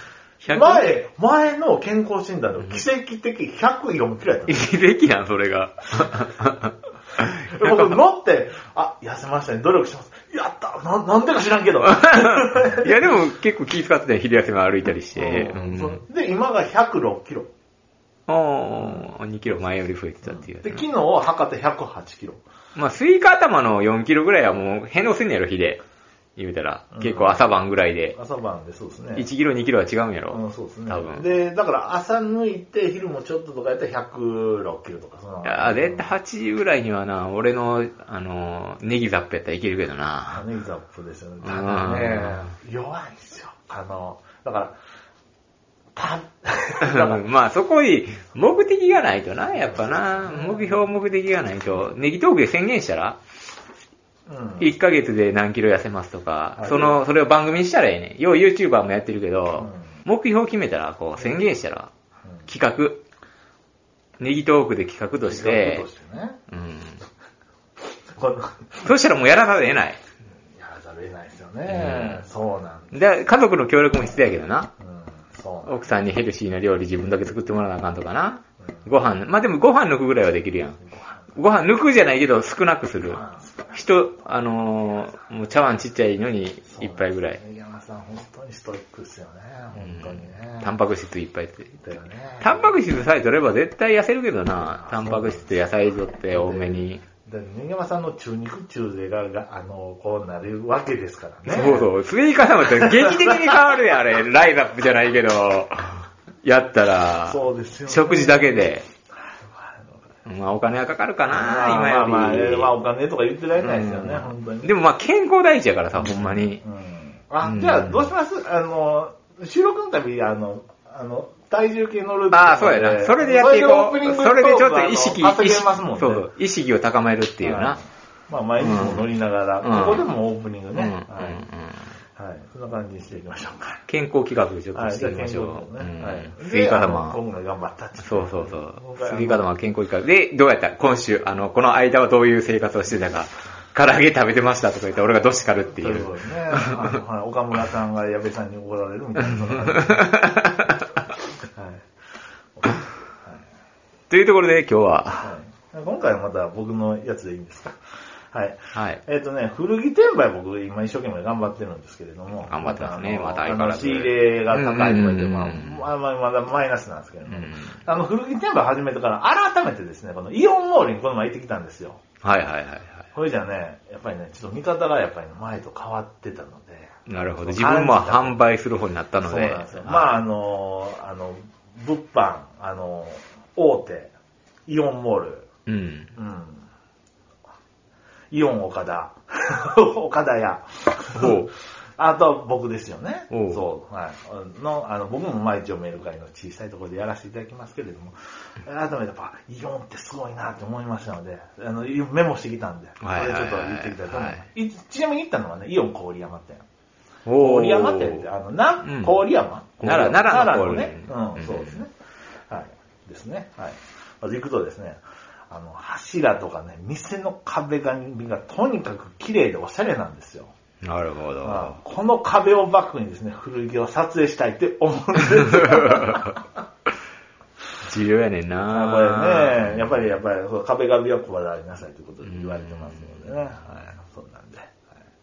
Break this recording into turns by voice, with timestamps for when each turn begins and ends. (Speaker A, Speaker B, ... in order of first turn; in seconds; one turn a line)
Speaker A: 0.4-1.0
Speaker B: 0.5-4.7
Speaker A: 4.5-8.0
Speaker B: 7.2-13.1
Speaker A: 11.9-16.0
Speaker B: 15.1-17.5
Speaker A: 18.3-20.8
Speaker B: 18.8-19.1
Speaker B: 20.2-22.4
Speaker A: 22.7-25.8
Speaker A: 26.4-28.2
Speaker B: 26.9-27.5
Speaker B: 28.1-29.3
Speaker A: 29.1-31.2
Speaker B: 30.3-36.1
Speaker A: 35.4-40.4
Speaker B: 40.3-44.7
Speaker A: 41.4-42.5
Speaker B: 45.9-47.2
Speaker A: 46.8-53.2
Speaker B: 49.7-50.8
Speaker B: 54.3-54.7
Speaker A: 54.6-61.9
Speaker B: 56.5-57.0
Speaker A: 62.5-63.0
Speaker A: 64.2-65.8
Speaker B: 65.2-66.4
Speaker A: 66.5-67.0
Speaker B: 68.1-68.9
Speaker A: 68.8-70.0
Speaker B: 70.5-72.9
Speaker A: 71.7-72.2
Speaker A: 72.9-74.7
Speaker B: 74.8-75.9
Speaker A: 75.7-80.8
Speaker A: 81.3-87.4
Speaker B: 83.1-83.8
Speaker B: 86.7-90.7
Speaker A: 89.8-91.8
Speaker B: 91.8-92.7
Speaker A: 92.4-97.0
Speaker B: 94.7-95.6
Speaker B: 96.3-101.9
Speaker A: 101.5-108.8
Speaker B: 102.7-103.6
Speaker B: 107.2-110.0
Speaker A: 110.2-112.7
Speaker B: 111.3-114.7
Speaker A: 113.6-116.6
Speaker B: 116.0-126.3
Speaker A: 117.4-118.1
Speaker A: 122.3-127.8
Speaker B: 127.4-131.4
Speaker A: 128.6-129.1
Speaker A: 129.6-130.1
Speaker A: 130.7-131.9
Speaker B: 132.2-133.8
Speaker A: 133.9-137.2
Speaker B: 134.7-139.4
Speaker A: 138.0-146.8
Speaker B: 145.8-150.4
Speaker A: 149.2-150.9
Speaker B: 151.5-151.8
Speaker B: 152.6-153.4
Speaker A: 154.1-155.3
Speaker B: 155.2-157.8
Speaker B: 158.3-172.0
Speaker A: 158.7-159.0
Speaker A: 162.5-165.9
Speaker A: 167.3-167.8
Speaker A: 172.2-173.1
Speaker B: 173.1-178.4
Speaker A: 177.1-180.2
Speaker B: 179.2-184.1
Speaker B: 184.7-185.5
Speaker A: 185.7-186.1
Speaker B: 186.1-186.6
Speaker B: 188.3-206.6
Speaker A: 191.1-191.5
Speaker A: 193.3-193.6
Speaker A: 203.0-204.4
Speaker A: 207.2-208.2
Speaker B: 207.4-211.9
Speaker A: 208.8-209.2
Speaker A: 209.8-211.8
Speaker B: 212.5-220.5
Speaker A: 220.8-221.8
Speaker B: 221.4-226.4
Speaker A: 225.2-226.4
Speaker A: 227.8-230.1
Speaker B: 228.7-234.9
Speaker A: 232.2-233.5